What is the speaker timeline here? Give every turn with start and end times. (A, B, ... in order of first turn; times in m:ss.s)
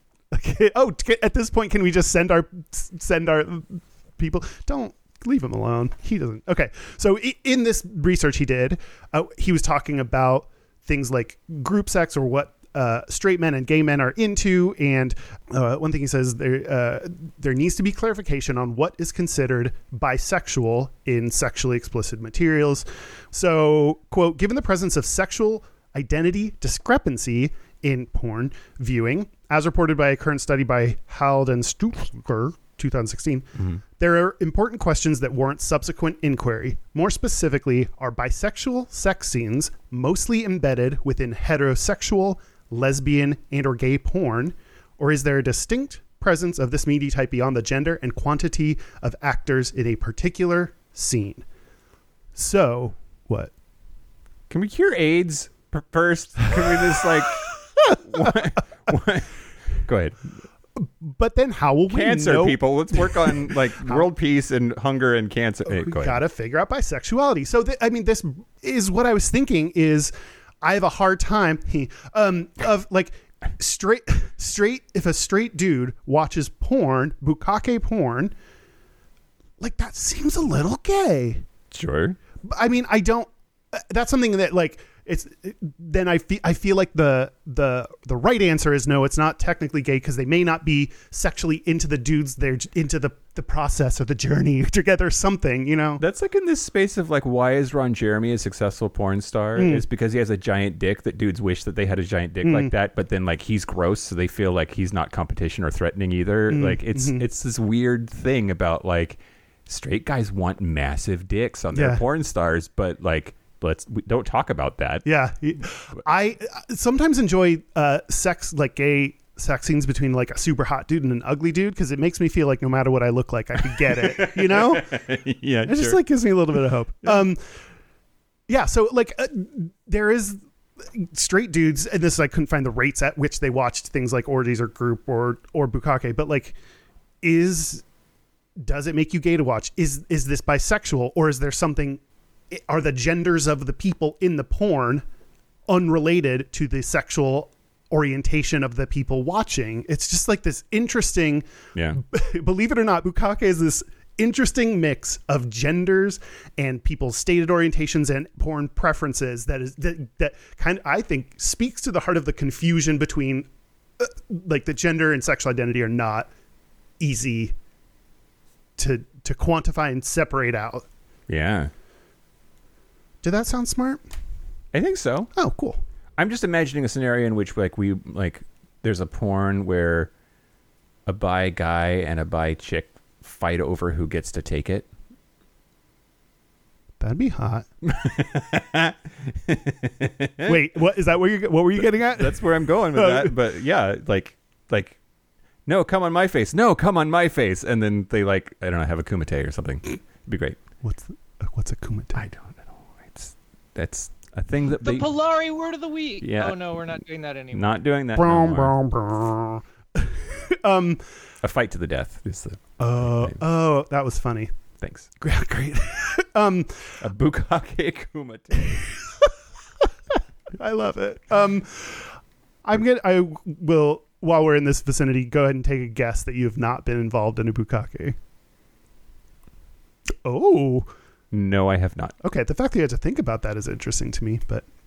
0:00.3-0:51.4 A
0:52.3-0:53.5 A
0:54.5-1:00.2 B
0:57.9-0:58.3 A
1:00.8-1:04.0 A
1:01.9-1:06.2 B
1:05.6-1:18.3 A
1:19.6-1:21.4 A
1:21.7-1:22.2 B
1:22.4-1:36.0 A
1:36.0-1:55.0 B
1:39.6-1:39.8 A
1:42.4-1:42.7 A
1:46.5-1:47.2 A
1:51.7-1:52.0 A
1:55.0-2:04.9 A
2:03.6-2:06.0 B
2:05.6-2:07.4 A
2:08.5-2:10.4 A
2:10.9-2:16.6 A
2:17.2-2:17.8 A
2:18.6-2:22.0 A
2:22.5-2:25.0 A
2:25.7-2:43.5 A
2:44.0-2:46.3 A
2:47.0-2:47.5 A
2:48.8-2:50.8 A
2:51.3-2:51.7 B
2:53.2-2:54.0 A
2:54.7-2:55.3 B
2:55.4-2:55.8 A
2:56.2-3:00.1 B
3:01.0-3:04.9 B
3:07.0-3:07.7 A
3:07.8-3:10.6 B
3:10.4-3:13.4 A
3:11.8-3:15.0 B
3:15.6-3:20.6 B
3:20.8-3:22.2 A
3:22.1-3:25.1 B
3:24.7-3:27.8 C
3:26.2-3:26.6 B
3:27.5-3:28.7 B
3:28.2-3:31.0 A
3:31.4-3:33.4 B
3:32.8-3:34.5 A
3:34.8-3:35.1 B
3:35.2-3:36.9 A
3:37.0-3:38.8 B
3:40.6-3:42.1 A
3:42.6-3:48.2 A
3:50.2-3:50.9 A
3:51.3-3:52.1 B
3:52.2-3:54.6 A